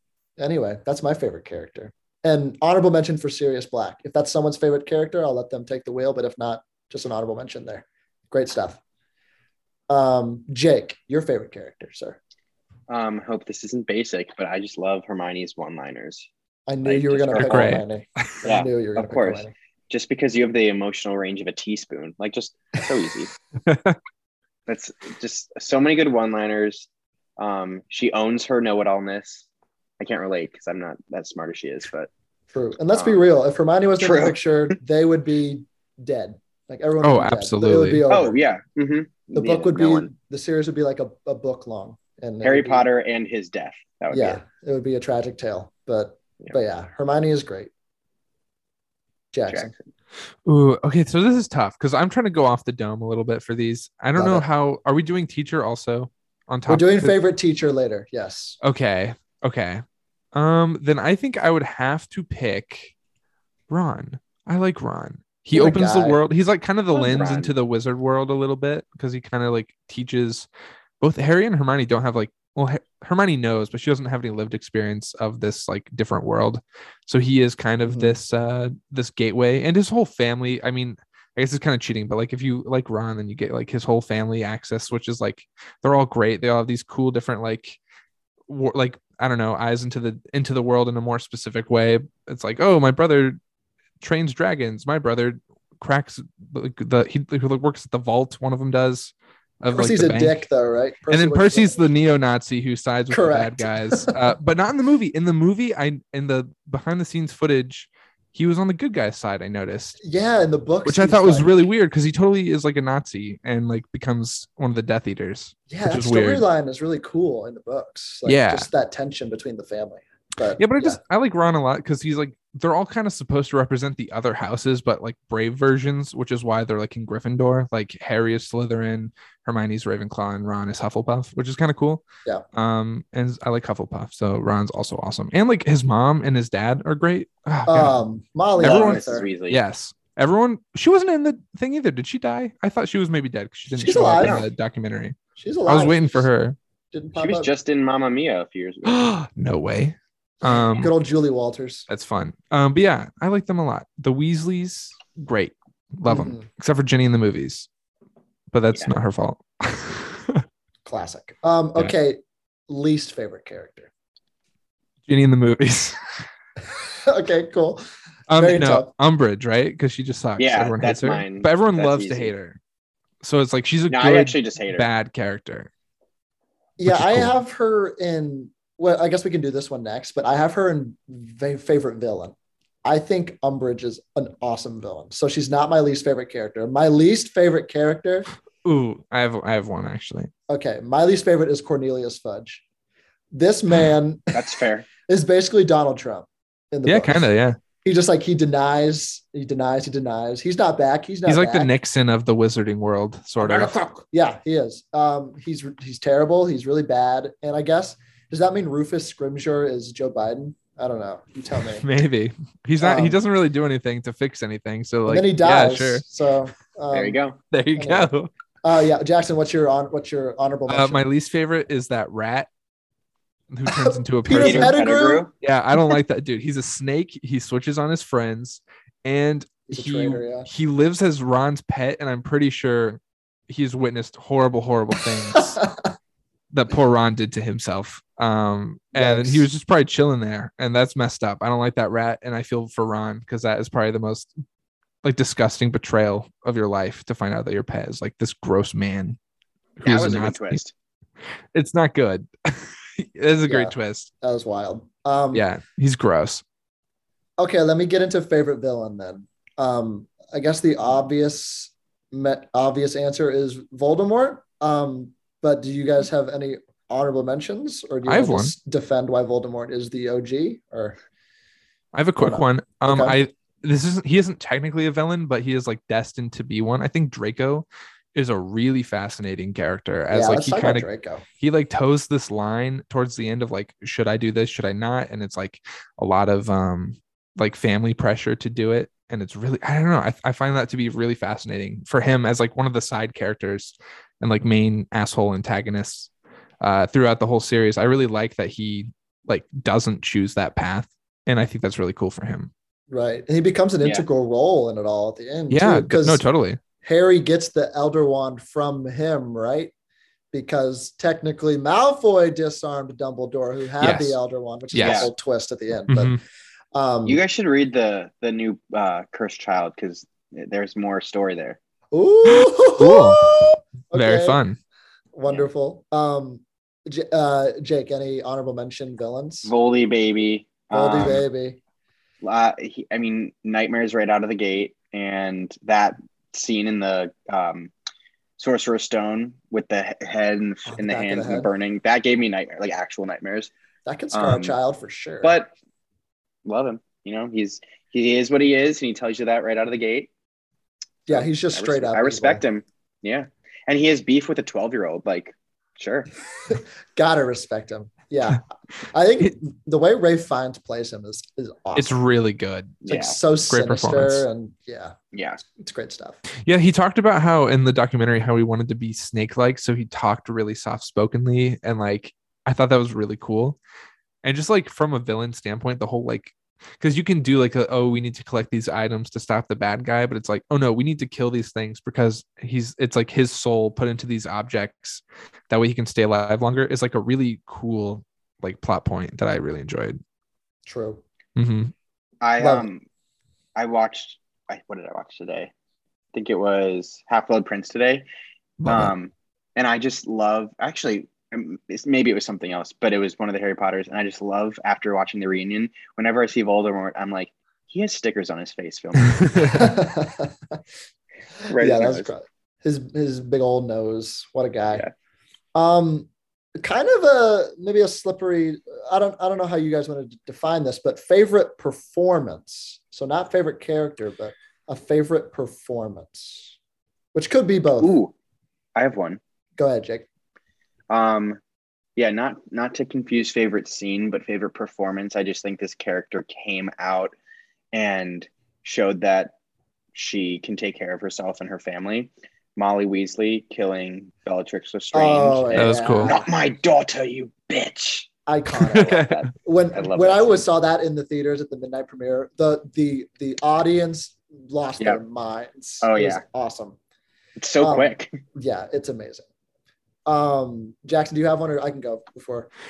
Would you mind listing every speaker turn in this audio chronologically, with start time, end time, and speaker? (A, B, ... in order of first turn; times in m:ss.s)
0:00.4-0:08.8 A
0:09.9-0:12.2 A
0:12.9-0:16.3 B
0:16.7-0:19.5 A
0:16.8-0:17.7 B
0:17.4-0:17.8 C
0:18.4-0:23.3 B
0:23.6-0:24.0 C
0:24.7-0:29.4 B
0:30.0-0:32.1 B
0:32.5-0:38.4 A
0:32.9-0:33.2 B
0:34.0-0:34.7 B
0:37.0-0:38.0 C
0:38.1-0:40.1 B
0:39.3-0:42.8 A
0:42.4-0:44.4 B
0:44.1-0:47.7 A
0:49.3-0:49.7 A
0:49.5-0:49.9 B
0:50.4-0:57.2 C
0:54.1-0:54.5 A
0:56.7-0:58.6 A
0:58.6-1:02.9 C
1:03.7-1:10.5 C
1:05.5-1:06.2 A
1:06.9-1:07.5 B
1:11.0-1:27.8 C
1:17.8-1:18.2 A
1:28.5-1:33.4 C
1:34.0-1:40.4 C
1:39.7-1:41.8 A
1:41.1-1:50.0 C
1:43.1-1:44.1 A
1:50.0-1:51.5 A
1:50.8-1:56.4 C
1:55.7-2:01.0 A
1:58.2-1:58.7 C
2:00.6-2:18.0 C
2:17.7-2:19.3 A
2:18.6-2:19.6 B
2:18.6-2:25.2 C
2:23.7-2:24.4 A
2:24.2-2:24.5 B
2:25.4-2:26.3 A
2:25.7-2:26.6 C
2:26.9-2:27.5 A
2:27.2-2:29.0 B
2:28.8-2:30.9 C
2:30.4-2:31.9 A
2:31.9-2:37.7 C
2:36.1-2:36.5 A
2:38.5-2:40.4 C
2:40.8-2:43.9 A
2:45.1-2:46.0 C
2:47.0-2:47.8 A
2:48.3-2:52.6 C
2:48.3-2:48.9 A
2:50.4-2:52.3 B
2:53.2-2:55.7 C
2:53.9-2:54.9 B
2:56.8-3:08.3 A
2:56.8-2:57.4 C
3:08.6-3:10.3 C
3:10.5-3:12.6 A
3:13.3-3:14.4 A
3:14.3-3:14.9 B
3:15.0-3:17.3 A
3:16.8-3:17.6 C
3:17.8-3:21.7 A
3:21.3-3:23.8 C
3:23.4-3:24.0 B
3:24.1-3:31.8 A
3:31.8-3:36.0 C
3:32.8-3:33.2 A
3:35.1-3:37.2 A
3:36.9-3:37.4 B
3:37.5-3:38.3 C
3:37.8-3:38.1 A
3:38.6-3:41.0 A
3:40.7-3:42.5 C
3:43.5-3:44.8 C
3:43.7-3:45.3 A
3:44.3-3:45.3 B
3:45.4-3:55.6 C
3:49.7-3:50.5 A
3:55.3-3:55.9 A
3:56.5-4:04.3 C
3:58.9-3:59.5 A
4:05.0-4:09.2 C
4:09.8-4:10.6 C
4:09.8-4:10.7 B
4:11.5-4:14.1 C
4:13.5-4:15.4 A
4:15.3-4:16.4 C
4:17.4-4:31.0 A
4:28.0-4:28.5 C
4:31.9-4:40.8 C
4:32.2-4:33.2 A
4:40.1-4:41.2 A
4:41.4-4:56.1 C
4:56.6-5:02.5 C
5:02.9-5:06.2 A
5:05.5-5:06.6 C
5:06.8-5:09.7 A
5:10.3-5:16.2 A
5:13.8-5:14.2 C
5:14.7-5:15.1 C
5:14.8-5:15.1 B
5:15.9-5:16.2 C
5:16.7-5:17.2 A
5:17.0-5:21.6 B
5:21.9-5:24.4 A
5:22.3-5:23.2 C
5:23.9-5:24.6 C
5:25.1-5:29.5 A
5:29.4-5:31.2 B
5:30.7-5:31.6 A
5:32.2-5:37.7 B
5:38.4-5:43.5 B
5:40.7-5:41.5 A
5:43.8-5:45.3 A
5:44.1-5:44.6 B
5:45.2-5:45.5 B
5:46.4-5:50.1 B
5:51.1-5:52.4 A
5:51.1-5:56.1 B
5:56.5-6:02.0 A
6:01.8-6:02.8 C
6:02.8-6:03.2 B
6:02.9-6:06.2 A
6:03.5-6:04.2 C
6:05.1-6:05.4 B
6:06.4-6:13.6 C
6:14.2-6:30.0 C
6:30.6-6:31.0 A
6:31.4-6:31.7 C
6:32.2-6:32.8 B
6:32.4-6:32.7 A
6:33.5-6:35.5 B
6:36.1-6:38.0 B
6:38.6-6:38.9 C
6:38.7-6:49.6 B
6:49.0-6:49.5 C
6:49.4-6:50.6 A
6:51.5-6:52.1 B
6:51.5-6:54.8 A
6:55.5-7:06.5 A
7:07.1-7:08.0 A
7:07.8-7:08.1 B
7:08.7-7:09.2 B
7:09.6-7:10.1 A
7:10.9-7:11.4 B
7:12.0-7:17.1 B
7:17.7-7:19.3 B
7:19.9-7:28.1 B
7:24.9-7:26.2 A
7:25.5-7:26.2 C
7:28.3-7:36.8 A
7:28.6-7:29.2 C
7:29.0-7:30.4 B
7:35.8-7:36.2 B
7:37.4-7:38.2 B
7:37.6-7:39.2 A
7:40.0-7:42.5 A